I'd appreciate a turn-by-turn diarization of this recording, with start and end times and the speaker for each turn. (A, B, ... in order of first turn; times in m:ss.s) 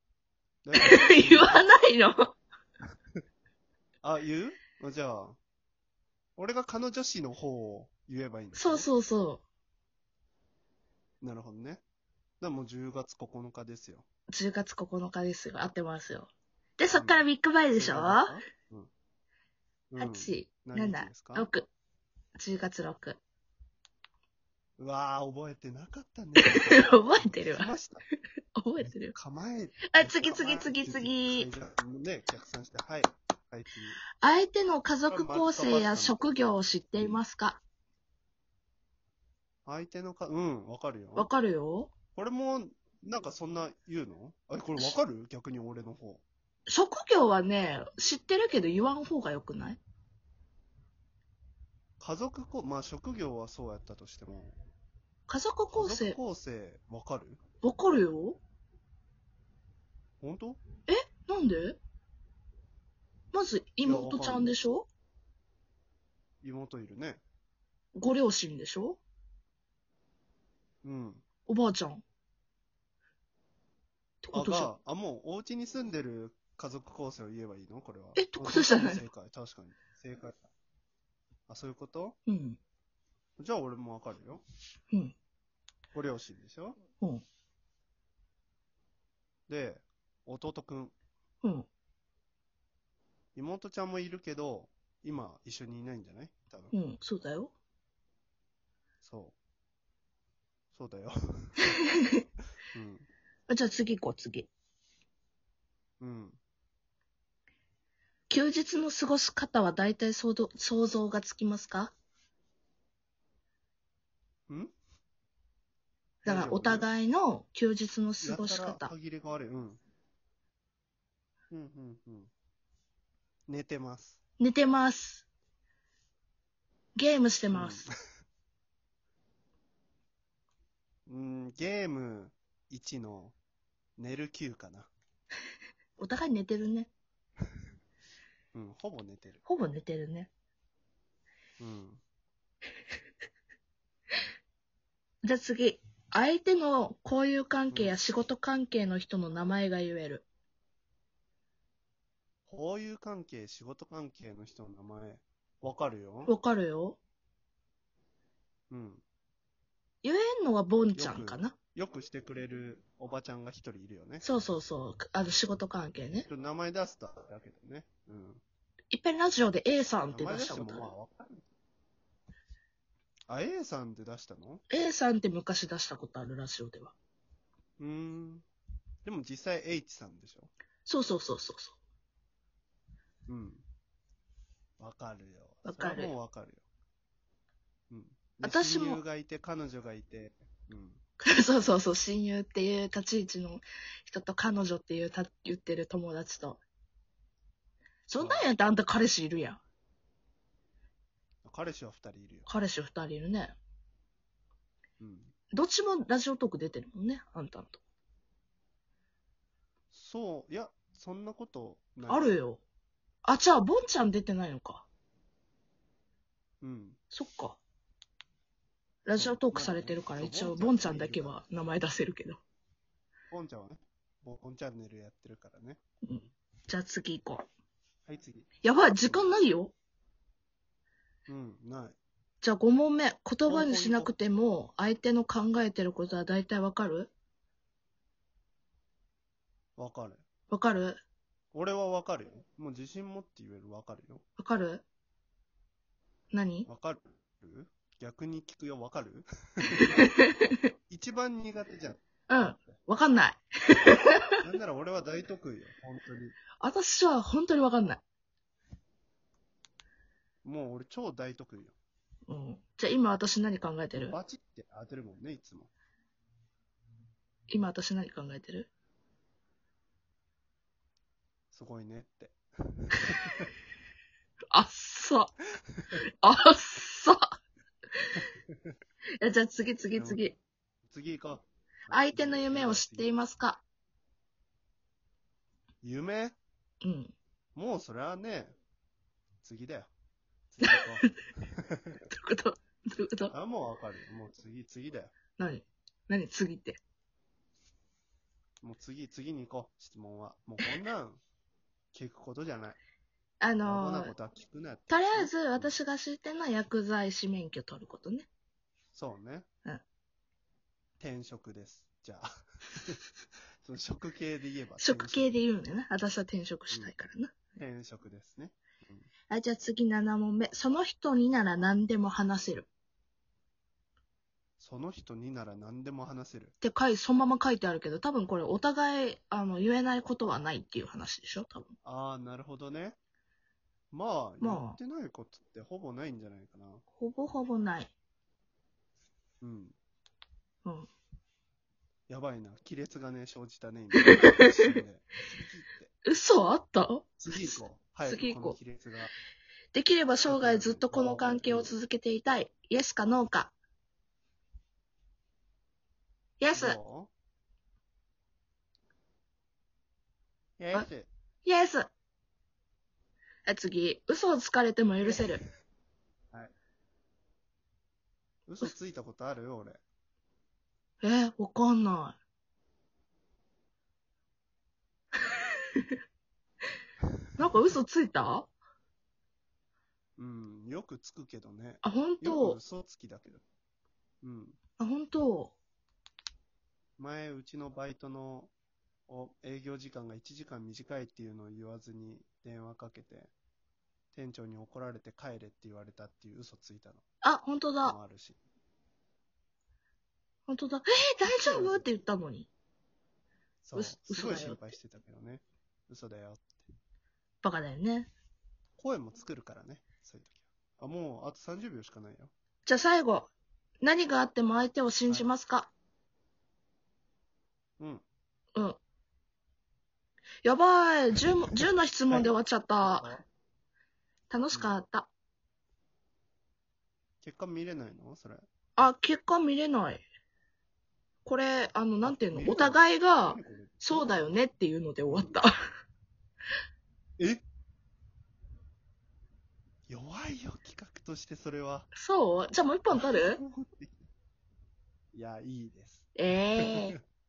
0:00.6-0:01.7 A
0:00.8-0:02.4 B
0:04.0-0:05.4 A
0:06.4-0:08.9 A
0:08.6-0:09.4 B
0:11.2-0:11.8 A
0:12.4-0:14.1 A
0:14.3-0:18.3 B
0:16.9-0:17.2 A
0:17.8-0:18.9 A
0:19.9-0:21.5 A
0:20.0-0:21.7 B
0:22.4-0:23.2 B
0:24.8-0:28.0 A
0:26.4-0:27.7 B
0:28.6-0:29.2 B
0:29.1-0:34.0 A
0:29.9-0:31.5 B
0:34.2-0:37.6 B
0:35.1-0:36.2 A
0:37.0-0:37.2 A
0:39.7-0:41.3 A
0:41.2-0:41.9 B
0:42.2-0:46.2 A
0:46.7-0:49.8 B
0:52.0-0:54.6 A
0:55.3-0:56.2 B
0:55.7-0:57.4 A
0:57.6-0:58.4 B
1:00.2-1:00.6 A
1:00.9-1:01.8 B
1:03.3-1:04.9 B
1:03.8-1:04.6 A
1:06.4-1:07.2 A
1:08.0-1:09.0 B
1:10.8-1:11.2 A
1:11.5-1:12.0 B
1:14.2-1:14.7 B
1:14.3-1:20.4 A
1:18.2-1:19.0 B
1:21.5-1:22.2 A
1:22.3-1:22.6 B
1:23.4-1:24.4 A
1:25.9-1:26.8 A
1:29.5-1:31.0 A
1:31.4-1:31.7 B
1:33.4-1:36.7 A
1:36.7-1:37.5 B
1:39.0-1:39.4 A
1:40.7-1:41.6 A
1:42.7-1:43.1 A
1:43.5-1:44.5 B
1:46.0-1:46.4 A
1:48.3-1:51.9 B
1:54.5-1:54.7 A
1:56.2-1:56.9 A
1:56.2-1:58.9 B
1:58.2-1:59.8 A
2:01.5-2:02.3 A
2:03.5-2:04.2 A
2:04.4-2:05.2 B
2:07.0-2:07.9 B
2:07.5-2:07.9 A
2:11.1-2:13.4 A
2:14.0-2:14.9 A
2:16.0-2:16.9 B
2:18.5-2:19.4 A
2:19.5-2:20.3 B
2:21.6-2:22.0 A
2:25.2-2:30.2 B
2:27.7-2:28.0 A
2:32.5-2:36.3 A
2:36.2-2:37.0 B
2:38.7-2:39.0 A
2:40.0-2:41.5 B
2:41.0-2:44.3 A
2:44.2-2:46.3 B
2:46.2-2:48.4 A
2:48.9-2:50.9 B
2:50.1-2:51.4 A
2:53.3-2:54.6 A
2:54.7-2:56.9 B
2:57.8-2:58.5 A
2:59.0-3:00.5 A
3:00.9-3:01.8 B
3:03.3-3:03.6 A
3:04.8-3:06.7 A
3:05.6-3:06.1 B
3:07.9-3:11.0 A
3:08.4-3:09.0 B
3:11.2-3:16.6 B
3:18.1-3:19.6 B
3:18.2-3:18.5 A
3:21.4-3:22.5 A
3:22.5-3:23.6 B
3:25.0-3:25.3 A
3:25.5-3:27.8 B
3:29.9-3:32.3 A
3:32.1-3:32.6 B
3:33.2-3:34.9 B
3:36.6-3:37.0 A
3:37.1-3:37.6 B
3:39.0-3:42.4 B
3:39.2-3:41.4 A
3:43.3-3:45.8 A
3:46.0-3:47.5 B
3:48.1-3:48.5 A
3:48.6-3:49.8 B
3:49.0-3:49.4 A
3:51.3-3:52.0 A
3:52.4-3:57.1 B
3:53.5-3:54.1 A
3:59.8-4:00.2 A
4:00.5-4:01.0 B
4:01.5-4:04.2 A
4:04.4-4:04.8 B
4:06.3-4:06.7 B
4:06.7-4:10.0 A
4:09.7-4:10.6 B
4:10.9-4:12.0 A
4:12.3-4:14.4 B
4:14.4-4:16.4 A
4:16.6-4:18.0 B
4:20.4-4:21.8 A
4:22.3-4:24.2 B
4:23.9-4:25.7 A
4:27.5-4:28.7 B
4:31.5-4:33.5 A
4:34.5-4:35.3 B
4:36.2-4:37.3 B
4:39.2-4:40.4 B
4:40.0-4:40.2 A
4:40.9-4:43.1 A
4:41.9-4:43.6 B
4:45.8-4:46.4 A
4:46.8-4:47.1 B
4:47.6-4:48.6 A
4:49.4-4:49.9 A
4:50.5-4:52.0 A
4:50.6-4:51.0 B
4:52.1-4:53.3 B
4:53.3-4:55.1 A
4:55.4-4:56.8 B
4:58.6-5:01.2 A
5:01.9-5:02.8 A
5:03.4-5:04.1 B
5:03.6-5:05.7 A
5:04.9-5:08.3 B
5:08.9-5:09.5 A
5:11.0-5:13.0 A
5:13.6-5:15.3 A
5:14.8-5:17.5 B
5:17.6-5:19.1 A
5:19.3-5:22.7 B
5:24.6-5:26.5 A
5:26.6-5:31.8 B
5:31.8-5:33.0 A
5:33.9-5:36.8 A
5:34.4-5:34.8 B
5:37.0-5:37.9 B
5:39.4-5:39.8 A
5:42.1-5:45.9 A
5:44.0-5:44.4 B
5:46.1-5:47.1 B
5:47.2-5:49.1 A
5:48.0-5:48.6 B
5:49.7-5:53.5 B
5:50.3-5:51.8 A
5:56.4-5:56.8 B
5:56.5-5:57.1 A
6:00.6-6:01.1 A
6:01.4-6:01.9 B
6:03.5-6:05.4 B
6:05.0-6:05.5 A
6:08.5-6:09.8 A
6:11.0-6:12.2 B
6:15.4-6:15.8 B
6:17.4-6:18.5 B
6:20.2-6:23.4 A
6:21.8-6:22.6 B
6:24.2-6:24.6 A
6:24.8-6:25.6 B
6:27.0-6:28.5 A
6:29.1-6:33.3 A
6:34.1-6:37.0 A
6:37.2-6:38.0 B
6:37.8-6:38.4 A
6:40.5-6:42.5 B
6:41.2-6:41.9 A
6:43.6-6:46.7 A
6:43.8-6:44.7 B
6:47.4-6:48.1 B
6:48.8-6:52.3 A
6:52.6-6:53.3 B
6:53.8-6:55.7 B
6:57.8-6:58.0 A
7:00.4-7:03.1 B
7:02.1-7:03.2 A
7:04.3-7:05.1 B
7:04.5-7:04.8 A
7:07.2-7:08.5 A
7:08.8-7:10.0 B
7:11.2-7:15.5 B
7:12.0-7:14.2 A
7:15.1-7:15.4 A
7:19.9-7:21.9 A
7:21.9-7:23.4 B
7:22.9-7:24.0 A
7:25.1-7:26.1 A
7:26.2-7:27.0 B